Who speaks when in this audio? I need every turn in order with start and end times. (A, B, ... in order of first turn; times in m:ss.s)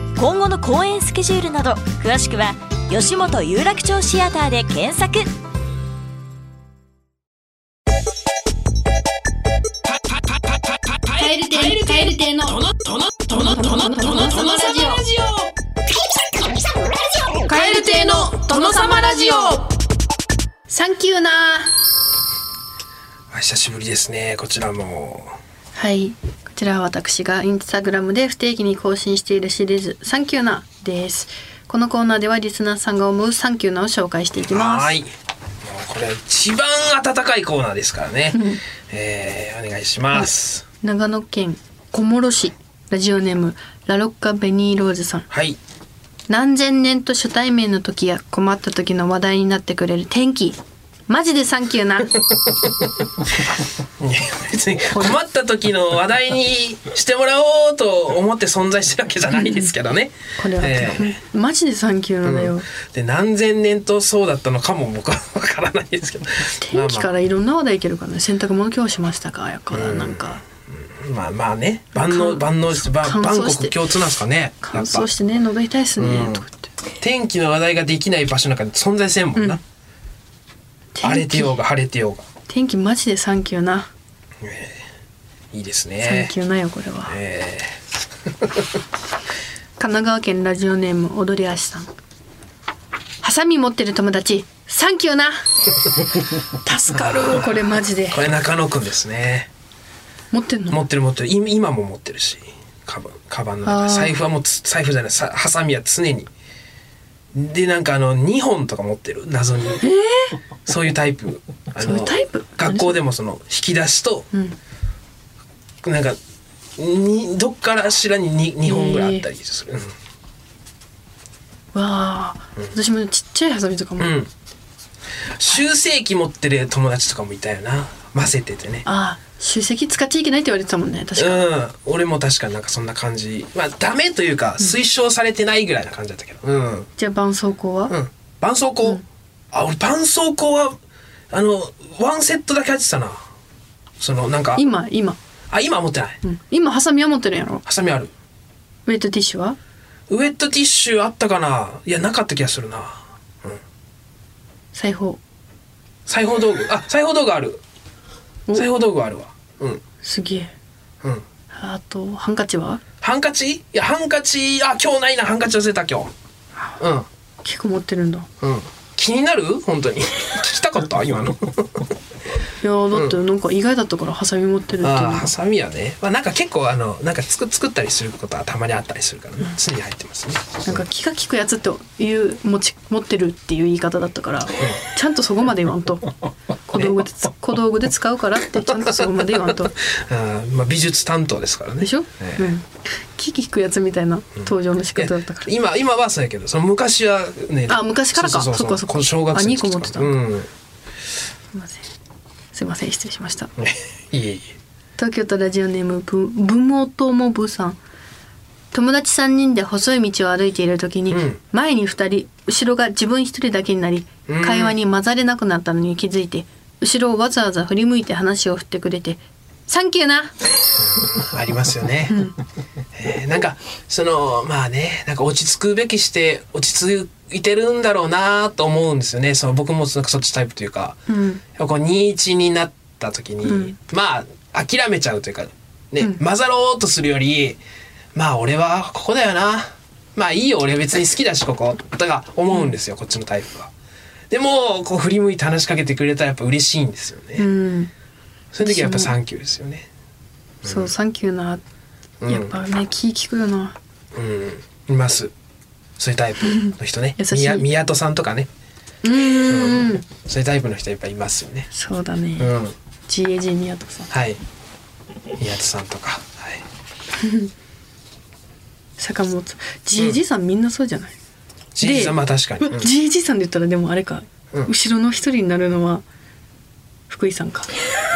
0:00.1-0:05.3 A
0:10.8-0:15.5 B
0:11.1-0:12.6 C
0:13.3-0:15.0 C
0:17.4-0:19.6 C
0:17.5-0:19.7 B
0:20.7-0:21.7 C
0:23.3-0:25.3 B
0:25.7-0:35.0 C
0:34.5-0:35.1 B
0:35.6-0:40.6 B
0:38.3-0:38.6 C
0:40.8-0:45.3 C
0:45.3-0:45.6 B
0:46.3-0:52.2 C
0:54.0-1:01.2 B
0:54.9-0:55.2 C
0:59.3-0:59.7 C
1:00.4-1:02.7 C
1:02.2-1:07.1 B
1:06.6-1:10.4 C
1:09.7-1:15.1 B
1:11.9-1:13.8 C
1:14.6-1:16.7 C
1:16.0-1:16.4 B
1:17.0-1:19.6 B
1:20.9-1:21.6 C
1:21.0-1:22.2 B
1:22.5-1:23.9 C
1:24.4-1:24.8 B
1:25.5-1:26.3 B
1:26.0-1:27.2 C
1:27.1-1:27.8 B
1:28.4-1:28.6 B
1:29.8-1:31.9 C
1:33.2-1:35.9 C
1:36.5-1:38.3 C
1:37.0-1:37.4 B
1:38.1-1:39.5 B
1:40.3-1:40.8 C
1:40.7-1:46.3 B
1:43.6-1:44.2 C
1:47.3-1:49.8 B
1:49.8-1:50.4 C
1:50.6-1:54.3 B
1:51.8-1:53.0 C
1:54.3-1:54.6 C
1:55.8-1:56.2 B
1:56.8-1:59.9 B
1:58.6-1:59.2 C
2:01.7-2:04.1 C
2:04.0-2:04.3 B
2:05.3-2:08.8 B
2:08.8-2:11.4 C
2:11.2-2:16.9 B
2:17.0-2:17.9 C
2:17.9-2:20.8 B
2:21.3-2:23.2 B
2:24.0-2:24.6 B
2:24.5-2:25.2 C
2:25.5-2:26.2 B
2:26.2-2:27.6 C
2:27.6-2:28.1 B
2:28.8-2:29.6 C
2:30.1-2:33.6 B
2:34.7-2:35.2 C
2:36.1-2:37.6 B
2:38.5-2:39.8 B
2:40.0-2:40.5 C
2:41.5-2:42.8 C
2:43.0-2:46.1 B
2:46.8-2:47.1 B
2:47.4-2:48.3 C
2:48.4-2:51.9 B
2:52.6-2:55.3 C
2:52.9-2:53.2 B
2:54.8-3:00.8 B
3:00.6-3:06.1 C
3:06.6-3:09.7 C
3:06.7-3:07.0 B
3:08.8-3:12.5 B
3:11.8-3:15.5 C
3:14.4-3:20.5 B
3:17.7-3:20.1 C
3:21.5-3:21.9 C
3:22.5-3:23.5 C
3:23.6-3:24.5 B
3:25.0-3:27.8 C
3:28.7-3:40.3 C
3:31.1-3:31.4 B
3:34.3-3:34.7 B
3:40.8-3:42.3 B
3:42.1-3:42.4 C
3:42.9-3:51.0 B
3:51.1-3:51.4 C
3:51.5-3:57.6 B
3:53.4-3:53.8 C
3:58.1-4:03.7 B
4:04.3-4:07.5 B
4:07.4-4:07.9 C
4:08.5-4:09.9 B
4:08.6-4:09.1 C
4:10.6-4:10.9 B
4:10.6-4:11.6 C
4:12.2-4:12.5 B
4:12.3-4:13.8 C
4:14.1-4:15.3 B
4:16.0-4:18.5 B
4:16.4-4:17.6 C
4:19.0-4:20.0 C
4:19.3-4:21.7 B
4:21.7-4:22.5 C
4:22.4-4:22.7 B
4:23.1-4:24.1 C
4:24.1-4:24.4 B
4:25.4-4:26.6 B
4:27.2-4:27.5 C
4:29.0-4:31.1 C
4:31.7-4:32.9 B
4:31.8-4:36.0 C
4:37.1-4:37.7 C